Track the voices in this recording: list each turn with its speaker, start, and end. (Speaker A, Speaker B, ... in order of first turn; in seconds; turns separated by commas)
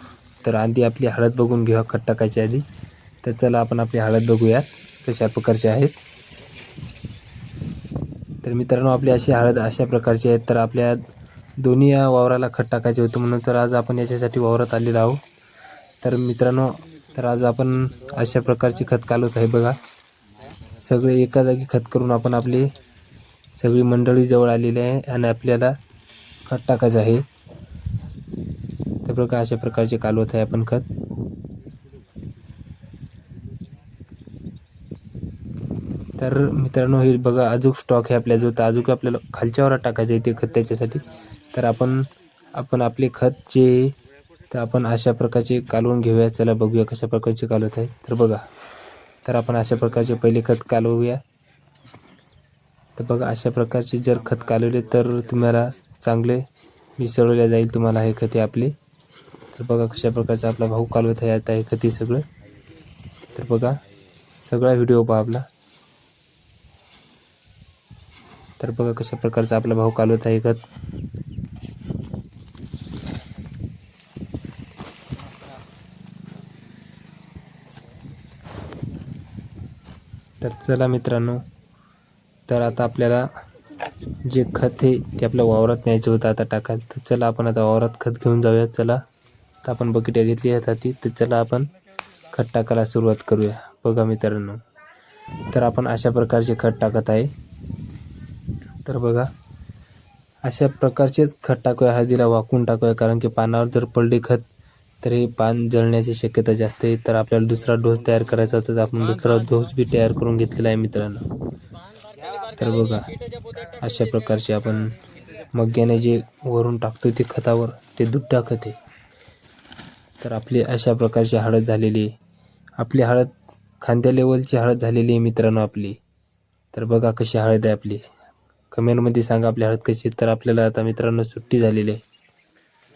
Speaker A: 0.4-2.6, Speaker A: 3.2-5.9, Speaker A: 8.4-11.0, Speaker A: 11.6-15.2, Speaker A: 16.0-19.8, Speaker A: 20.8-22.7, Speaker A: 23.6-25.7, Speaker A: 26.4-27.2, Speaker A: 29.0-30.9, Speaker A: 36.2-44.0, Speaker A: 44.5-48.4, Speaker A: 49.2-51.2, Speaker A: 53.0-56.4, Speaker A: 57.0-58.7, Speaker A: 59.5-62.2, Speaker A: 63.3-63.8, Speaker A: 64.4-65.5, Speaker A: 68.6-70.6, Speaker A: 80.4-81.4, Speaker A: 82.5-83.2, Speaker A: 84.2-89.0, Speaker A: 89.6-91.7, Speaker A: 92.3-94.6, Speaker A: 95.5-97.3, Speaker A: 98.8-99.3, Speaker A: 100.4-104.4, Speaker A: 105.0-111.2, Speaker A: 112.5-113.1, Speaker A: 113.7-115.0, Speaker A: 115.5-118.8, Speaker A: 120.2-122.1, Speaker A: 122.8-126.0, Speaker A: 126.7-128.1, Speaker A: 128.7-132.0